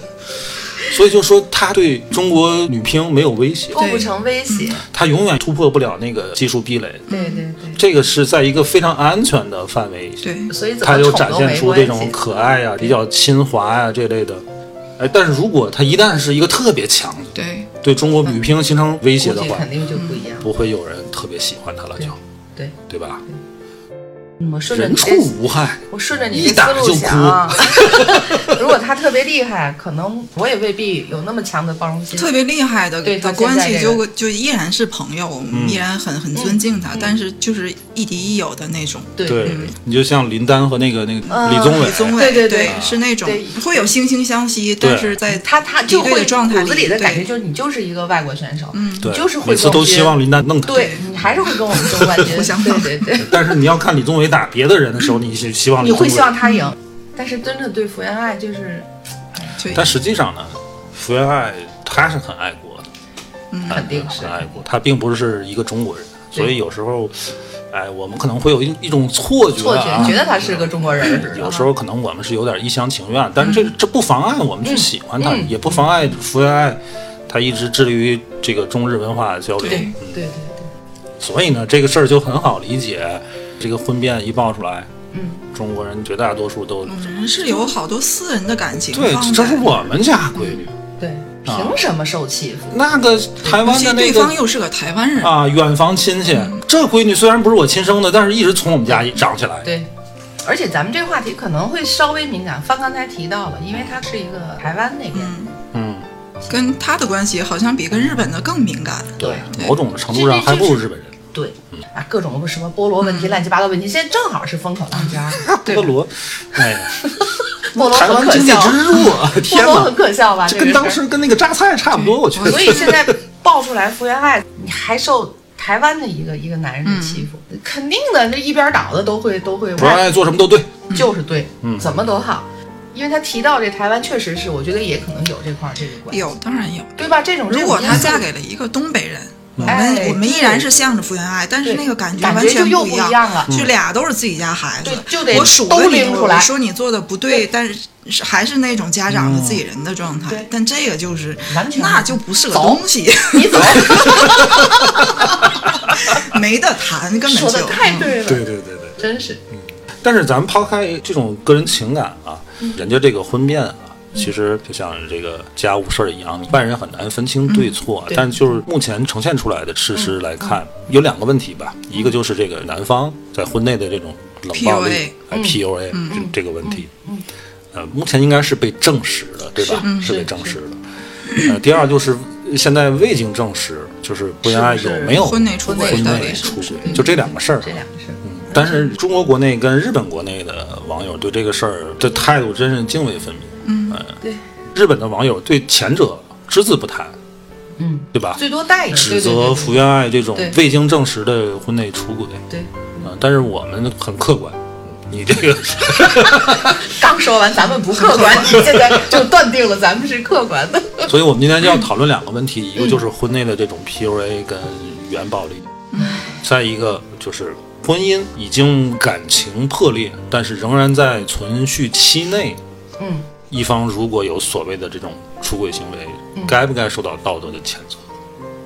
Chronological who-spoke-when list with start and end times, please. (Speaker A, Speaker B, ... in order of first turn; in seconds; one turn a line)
Speaker A: 0.8-3.8
Speaker B: 3.7-4.8
Speaker C: 3.8-4.7
Speaker A: 4.9-7.1
Speaker C: 7.1-7.4
Speaker B: 7.1-7.8
Speaker A: 7.7-10.3
Speaker C: 10.2-10.5
Speaker B: 10.5-12.2
Speaker A: 10.8-14.4
Speaker A: 15.0-19.7
Speaker C: 17.3-17.7
Speaker B: 19.2-20.5
Speaker C: 19.9-20.2
Speaker A: 20.4-22.2
Speaker B: 22.0-22.8
Speaker A: 22.9-23.2
Speaker B: 24.4-25.4
Speaker A: 24.7-28.6
Speaker B: 25.9-32.3
Speaker C: 32.1-39.8
Speaker B: 33.0-34.0
Speaker A: 35.5-35.8
Speaker B: 36.3-37.1
Speaker B: 39.2-39.5
Speaker A: 39.2-43.0
Speaker B: 41.3-43.9
Speaker C: 41.3-47.3
Speaker A: 44.8-45.2
Speaker B: 45.3-53.4
Speaker C: 48.7-49.1
Speaker A: 49.0-51.0
Speaker C: 50.7-53.1
Speaker A: 53.2-56.3
Speaker B: 55.8-59.5
Speaker C: 56.4-56.7
Speaker C: 59.6-59.9
Speaker A: 59.7-62.9
Speaker C: 63.5-63.8
Speaker B: 63.7-64.5
Speaker A: 63.7-80.2
Speaker B: 69.6-71.7
Speaker B: 74.6-75.8
Speaker C: 79.6-79.9
Speaker B: 79.7-80.7
Speaker A: 81.2-84.9
Speaker B: 85.1-85.4
Speaker A: 85.5-87.2
Speaker C: 86.8-89.8
Speaker A: 88.9-90.7
Speaker B: 91.0-92.8
Speaker A: 91.5-91.8
Speaker A: 92.7-94.4
Speaker C: 93.6-95.3
Speaker A: 95.2-99.7
Speaker C: 96.3-96.6
Speaker B: 99.6-99.9
Speaker B: 100.4-105.3
Speaker C: 105.1-105.5
Speaker A: 105.7-106.0
Speaker C: 106.5-109.8
Speaker A: 109.2-111.2
Speaker B: 109.2-109.5
Speaker B: 110.1-115.4
Speaker C: 113.0-113.4
Speaker C: 114.9-115.9
Speaker A: 115.4-117.1
Speaker B: 117.0-121.0
Speaker A: 117.7-123.1
Speaker C: 122.0-122.9
Speaker B: 122.4-130.1
Speaker C: 126.8-127.2
Speaker A: 129.8-130.8
Speaker B: 130.9-136.3
Speaker A: 131.6-131.9
Speaker C: 136.1-136.9
Speaker B: 137.0-138.2
Speaker C: 137.5-155.1
Speaker A: 139.6-139.8
Speaker B: 139.7-140.7
Speaker B: 141.6-143.5
Speaker A: 143.5-143.7
Speaker B: 144.8-146.5
Speaker A: 149.1-149.6
Speaker B: 151.5-155.4
Speaker A: 154.2-154.5
Speaker C: 156.0-158.1
Speaker B: 157.2-159.4
Speaker A: 158.1-176.9
Speaker B: 168.1-168.6
Speaker B: 169.9-170.5
Speaker C: 174.5-175.2
Speaker B: 175.3-175.6
Speaker C: 175.9-176.2
Speaker B: 176.1-177.2
Speaker A: 177.7-180.8
Speaker B: 179.6-180.6
Speaker C: 179.8-180.2
Speaker A: 181.3-194.2
Speaker B: 184.4-188.9
Speaker C: 185.1-187.1
Speaker C: 193.6-194.0
Speaker A: 194.7-197.2
Speaker B: 197.8-200.6
Speaker A: 198.1-202.4
Speaker B: 202.5-203.1
Speaker A: 203.0-206.8
Speaker B: 206.1-211.1
Speaker C: 207.9-208.7
Speaker A: 208.7-209.2
Speaker A: 211.1-215.8
Speaker C: 215.9-216.2
Speaker B: 216.0-216.3
Speaker A: 216.4-222.6
Speaker B: 223.0-223.3
Speaker A: 223.5-228.0